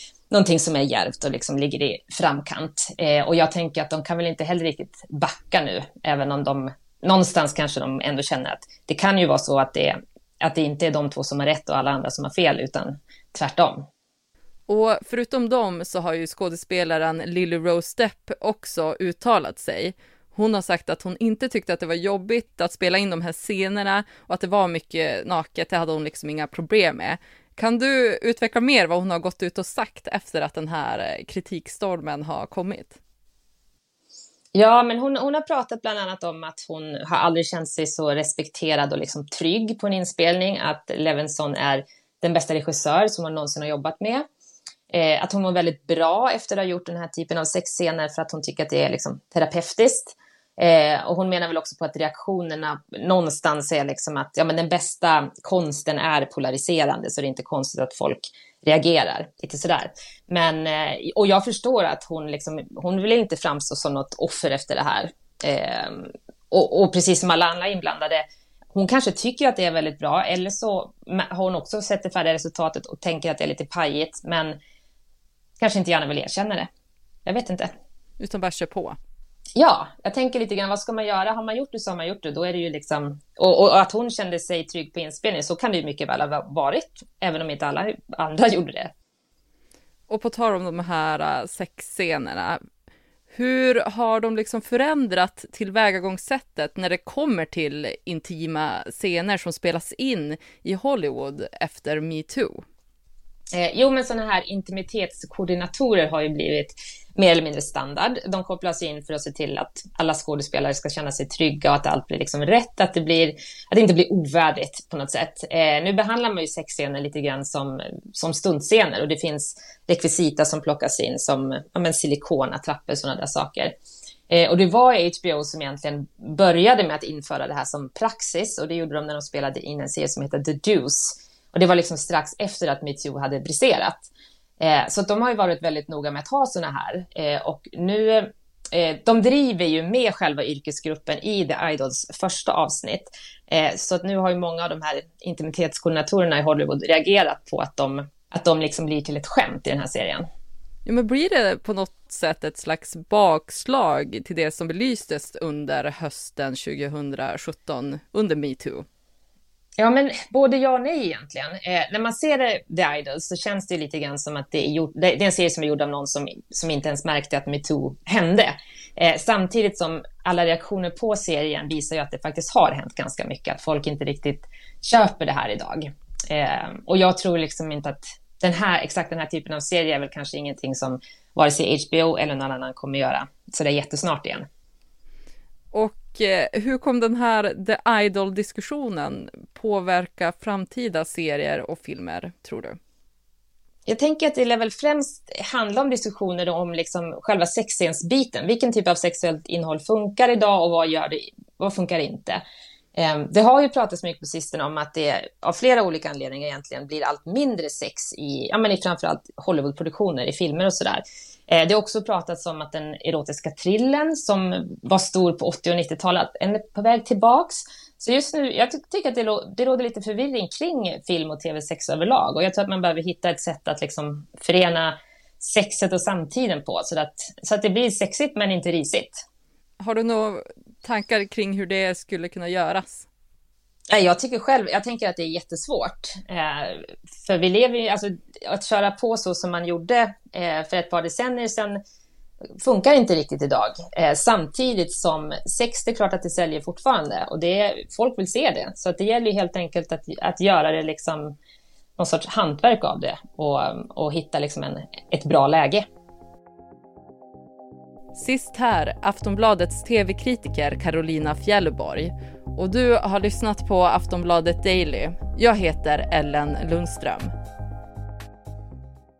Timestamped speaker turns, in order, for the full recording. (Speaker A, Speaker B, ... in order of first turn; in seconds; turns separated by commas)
Speaker A: 0.3-13.8, Speaker B: 14.7-33.0, Speaker A: 34.5-44.2, Speaker A: 44.9-74.6, Speaker A: 75.6-76.7, Speaker A: 77.2-77.7, Speaker B: 78.2-79.0, Speaker A: 79.5-88.9, Speaker B: 90.1-92.6, Speaker B: 93.3-102.6, Speaker A: 103.5-123.7, Speaker A: 124.3-150.3, Speaker B: 150.8-158.8, Speaker A: 159.8-184.5, Speaker B: 185.7-192.8, Speaker A: 193.9-202.4, Speaker A: 202.9-229.2, Speaker B: 229.8-233.1, Speaker A: 233.9-241.8, Speaker A: 242.6-251.3, Speaker A: 252.0-255.8, Speaker B: 258.1-267.3